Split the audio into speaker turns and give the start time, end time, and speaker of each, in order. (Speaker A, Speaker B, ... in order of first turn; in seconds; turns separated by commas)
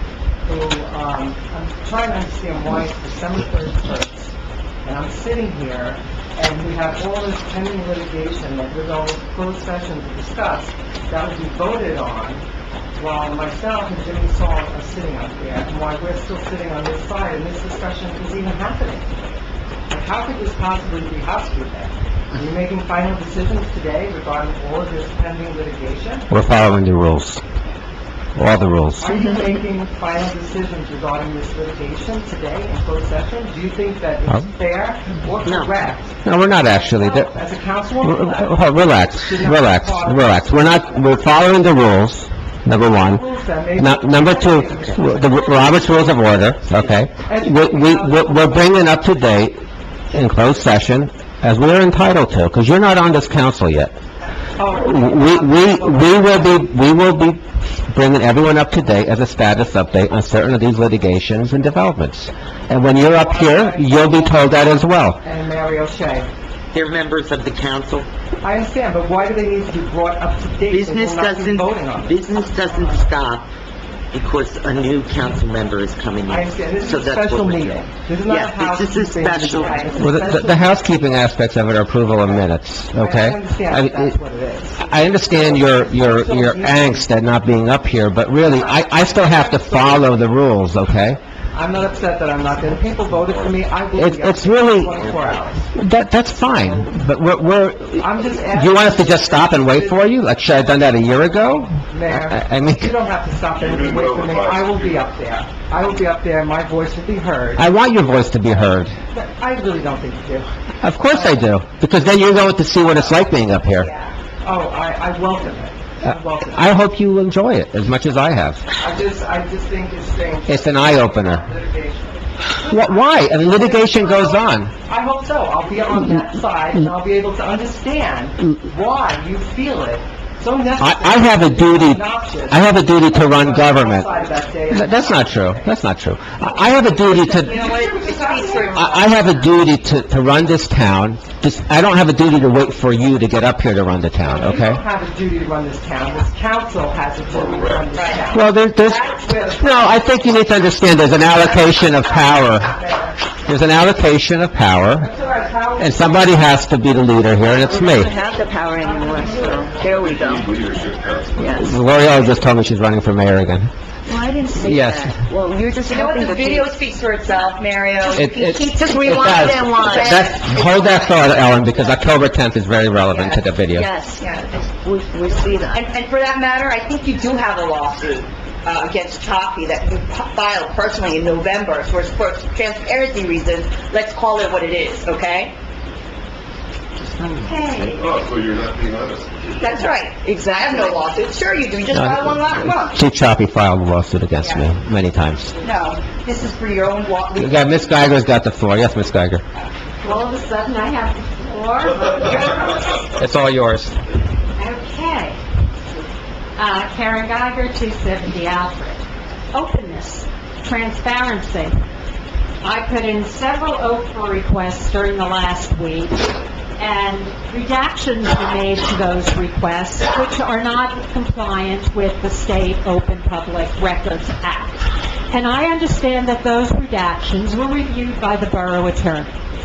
Speaker A: 0.5-12.4, Speaker A: 13.0-19.1, Speaker A: 19.9-26.3, Speaker B: 26.3-27.4, Speaker B: 28.4-29.1, Speaker A: 29.0-41.0, Speaker C: 35.5-35.7, Speaker B: 36.2-37.3, Speaker B: 38.0-43.2, Speaker A: 42.9-45.8, Speaker B: 43.8-49.6, Speaker A: 47.3-48.7, Speaker B: 50.1-53.9, Speaker A: 54.6-56.5, Speaker B: 54.7-65.2, Speaker A: 63.0-64.5, Speaker A: 65.2-66.3, Speaker C: 66.7-68.1, Speaker A: 68.4-72.9, Speaker C: 70.7-73.5, Speaker C: 74.1-80.1, Speaker A: 76.3-80.8, Speaker B: 80.0-84.1, Speaker A: 82.2-87.1, Speaker B: 84.8-91.2, Speaker A: 88.4-90.1, Speaker A: 91.5-95.7, Speaker B: 94.0-95.0, Speaker B: 95.8-101.8, Speaker A: 96.5-96.9, Speaker A: 98.0-100.1, Speaker A: 101.9-107.7, Speaker B: 102.3-102.9, Speaker D: 103.6-105.0, Speaker B: 107.6-109.0, Speaker A: 109.1-110.5, Speaker B: 110.8-113.9, Speaker A: 111.1-111.4, Speaker E: 113.8-114.1, Speaker A: 114.4-116.8, Speaker B: 116.6-118.6, Speaker A: 118.8-135.7, Speaker B: 120.5-121.4, Speaker B: 122.7-124.7, Speaker B: 130.8-134.1, Speaker B: 134.7-137.5, Speaker E: 137.1-139.1, Speaker A: 137.5-139.0, Speaker B: 138.7-144.8, Speaker A: 144.2-150.0, Speaker D: 147.3-147.9, Speaker E: 147.9-148.2, Speaker B: 148.3-152.8, Speaker B: 153.4-155.1, Speaker A: 155.1-156.2, Speaker B: 155.8-158.1, Speaker F: 157.6-160.5, Speaker A: 158.8-160.1, Speaker D: 159.9-161.9, Speaker F: 161.3-161.7, Speaker B: 161.5-163.7, Speaker F: 164.1-166.8, Speaker B: 164.6-165.2, Speaker E: 165.8-171.0, Speaker B: 168.1-173.9, Speaker F: 168.8-170.2, Speaker E: 173.1-173.4, Speaker F: 173.7-175.9, Speaker E: 174.0-174.5, Speaker E: 175.7-185.6, Speaker C: 187.0-188.1, Speaker G: 187.4-188.1, Speaker D: 188.0-189.8, Speaker E: 189.6-193.0, Speaker F: 190.2-191.1, Speaker B: 191.9-195.5, Speaker E: 195.6-197.8, Speaker B: 197.4-199.4, Speaker G: 200.0-203.1, Speaker B: 203.2-204.0, Speaker G: 204.6-205.4, Speaker G: 206.6-211.8, Speaker G: 212.6-229.3